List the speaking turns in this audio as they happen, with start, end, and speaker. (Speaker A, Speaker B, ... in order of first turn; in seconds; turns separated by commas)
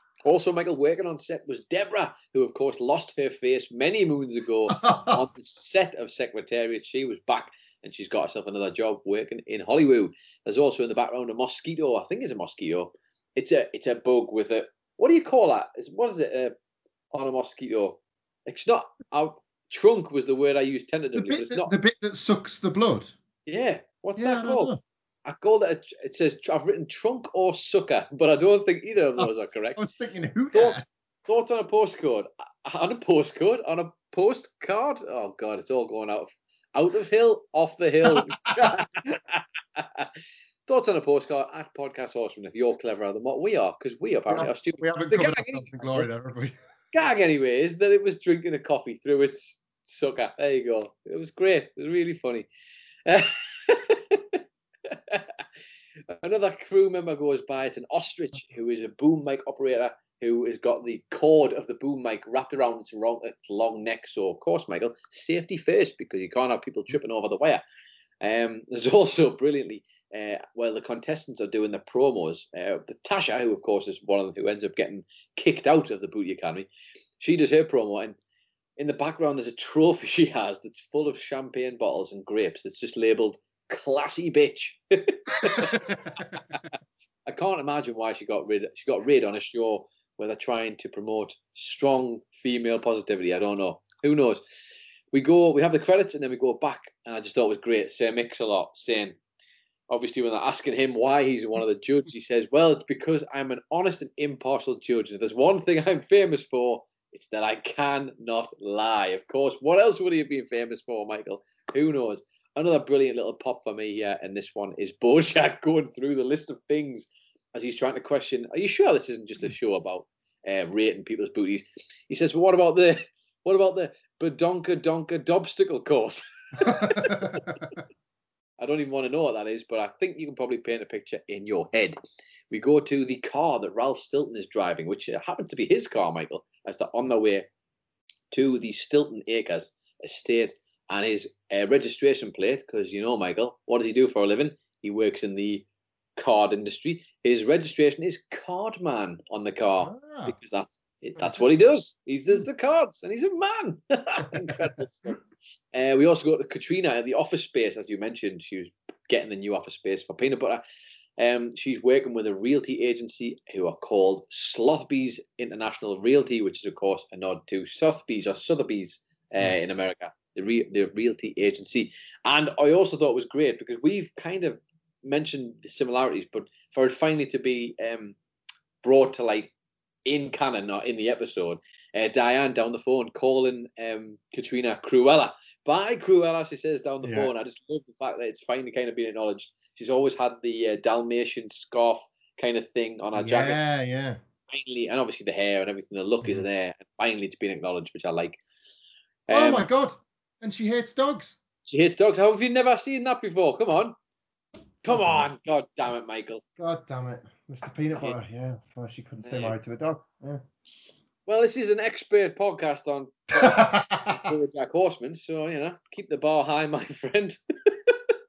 Speaker A: 0.2-16.5, Speaker B: 4.7-5.2, Speaker A: 17.1-21.7, Speaker B: 21.1-23.1, Speaker A: 23.4-24.7, Speaker B: 24.2-24.8, Speaker A: 25.2-29.8, Speaker B: 29.2-30.8, Speaker A: 30.5-40.1, Speaker B: 38.0-38.8, Speaker A: 40.7-46.1, Speaker B: 44.3-46.5, Speaker A: 46.9-52.5, Speaker A: 53.0-55.3, Speaker A: 56.1-67.6, Speaker A: 68.2-78.2, Speaker A: 78.8-86.7, Speaker B: 85.5-86.1, Speaker A: 87.2-94.4, Speaker A: 95.1-99.2, Speaker A: 99.9-127.6, Speaker B: 126.6-127.5, Speaker A: 128.6-131.9, Speaker A: 132.5-137.5, Speaker A: 138.3-145.6, Speaker A: 146.2-155.2, Speaker B: 149.8-150.3, Speaker B: 154.3-154.7, Speaker A: 155.7-160.6, Speaker A: 161.2-178.2, Speaker A: 178.8-179.5, Speaker A: 180.1-193.6, Speaker B: 187.0-187.3, Speaker B: 193.2-194.2, Speaker A: 194.5-198.4, Speaker A: 199.3-199.7, Speaker B: 199.3-201.4, Speaker A: 201.6-203.9, Speaker A: 204.8-206.4, Speaker B: 204.9-205.2, Speaker B: 206.6-210.4, Speaker A: 209.2-209.6, Speaker A: 211.2-218.0, Speaker B: 213.4-214.3